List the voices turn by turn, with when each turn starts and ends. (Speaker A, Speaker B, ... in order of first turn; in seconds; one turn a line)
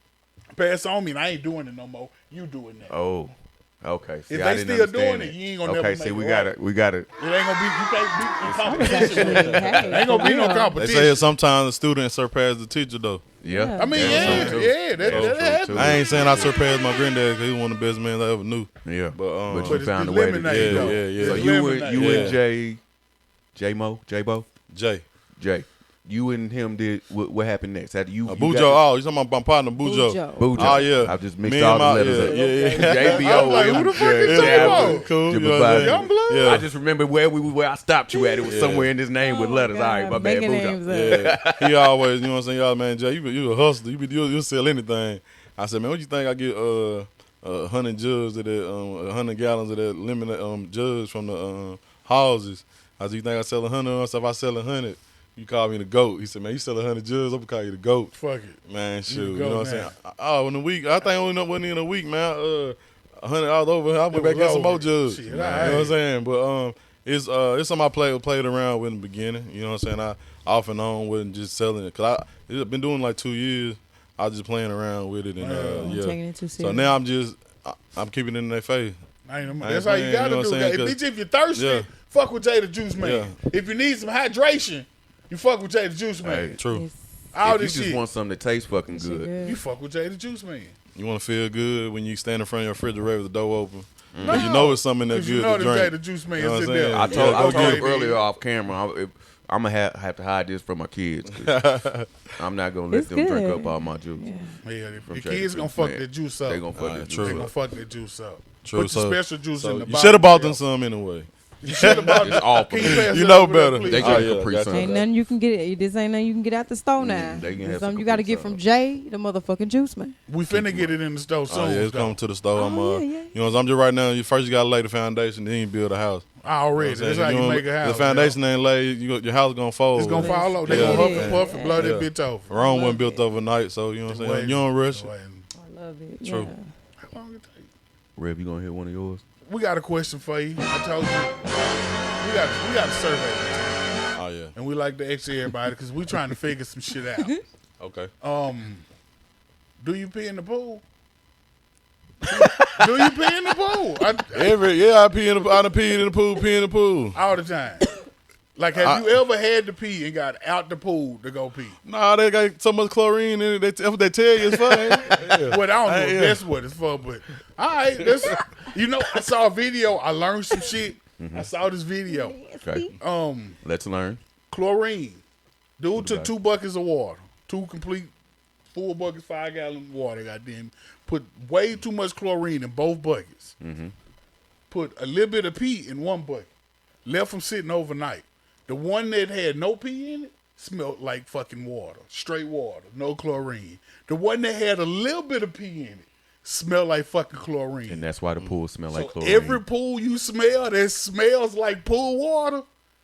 Speaker A: 0.5-2.9
Speaker B: 2.9-7.1
Speaker A: 4.3-6.5
Speaker A: 7.2-11.3
Speaker B: 8.4-9.6
Speaker C: 8.7-10.9
Speaker D: 9.2-10.1
Speaker D: 10.7-13.2
Speaker B: 13.4-16.6
Speaker C: 13.4-14.5
Speaker A: 13.8-16.2
Speaker D: 13.9-19.8
Speaker B: 18.8-22.8
Speaker A: 19.6-22.4
Speaker D: 20.4-22.4
Speaker B: 23.5-24.5
Speaker D: 24.7-25.0
Speaker B: 25.4-28.8
Speaker D: 28.2-36.6
Speaker C: 29.8-30.9
Speaker B: 30.4-42.0
Speaker C: 32.1-33.2
Speaker A: 32.1-35.1
Speaker A: 35.6-36.7
Speaker C: 38.1-41.3
Speaker D: 38.4-38.9
Speaker D: 40.9-58.1
Speaker A: 58.1-59.9
Speaker D: 58.7-79.0
Speaker A: 64.1-66.0
Speaker A: 75.4-76.0
Speaker C: 75.8-76.9
Speaker A: 79.2-86.5
Speaker D: 79.6-81.0
Speaker D: 81.5-81.9
Speaker D: 83.0-83.4
Speaker B: 86.2-86.6
Speaker D: 86.6-86.9
Speaker C: 86.7-87.0
Speaker A: 87.3-88.0
Speaker B: 87.4-89.3
Speaker C: 88.9-89.6
Speaker A: 89.4-90.7
Speaker D: 91.0-97.9
Speaker B: 94.1-94.5
Speaker A: 94.2-98.2
Speaker B: 97.0-101.6
Speaker D: 101.3-102.2
Speaker B: 102.4-104.3
Speaker C: 102.9-104.6
Speaker A: 104.6-110.6
Speaker B: 105.0-107.5
Speaker D: 106.7-107.5
Speaker D: 108.6-115.1
Speaker A: 111.6-114.4
Speaker B: 111.8-113.1
Speaker B: 113.8-115.0
Speaker C: 114.7-120.1
Speaker B: 117.0-118.6
Speaker A: 120.3-122.2
Speaker B: 120.5-120.9
Speaker D: 121.5-135.1
Speaker C: 122.5-123.4
Speaker A: 126.4-128.4
Speaker A: 129.9-132.5
Speaker C: 130.1-131.9
Speaker C: 132.5-133.2
Speaker A: 134.1-135.5
Speaker C: 135.5-136.7
Speaker D: 136.2-136.5
Speaker A: 137.0-137.7
Speaker B: 138.2-139.2
Speaker A: 139.4-141.6
Speaker A: 142.2-147.4
Speaker D: 144.2-144.5
Speaker D: 147.8-148.1
Speaker A: 148.2-148.8
Speaker A: 149.8-150.8
Speaker A: 152.2-154.6
Speaker D: 152.3-153.2
Speaker D: 154.3-157.2
Speaker A: 157.1-157.9
Speaker A: 158.6-161.8
Speaker D: 158.8-159.1
Speaker D: 161.8-166.4
Speaker A: 165.4-172.4
Speaker B: 171.2-171.5
Speaker C: 172.1-172.9
Speaker B: 172.6-172.9
Speaker A: 173.0-173.6
Speaker B: 173.6-174.2
Speaker A: 174.5-175.2
Speaker A: 175.8-178.1
Speaker B: 175.9-176.3
Speaker A: 178.7-183.6
Speaker B: 183.6-183.9
Speaker A: 184.7-186.5
Speaker A: 187.0-198.0
Speaker B: 197.9-199.6
Speaker A: 198.9-202.6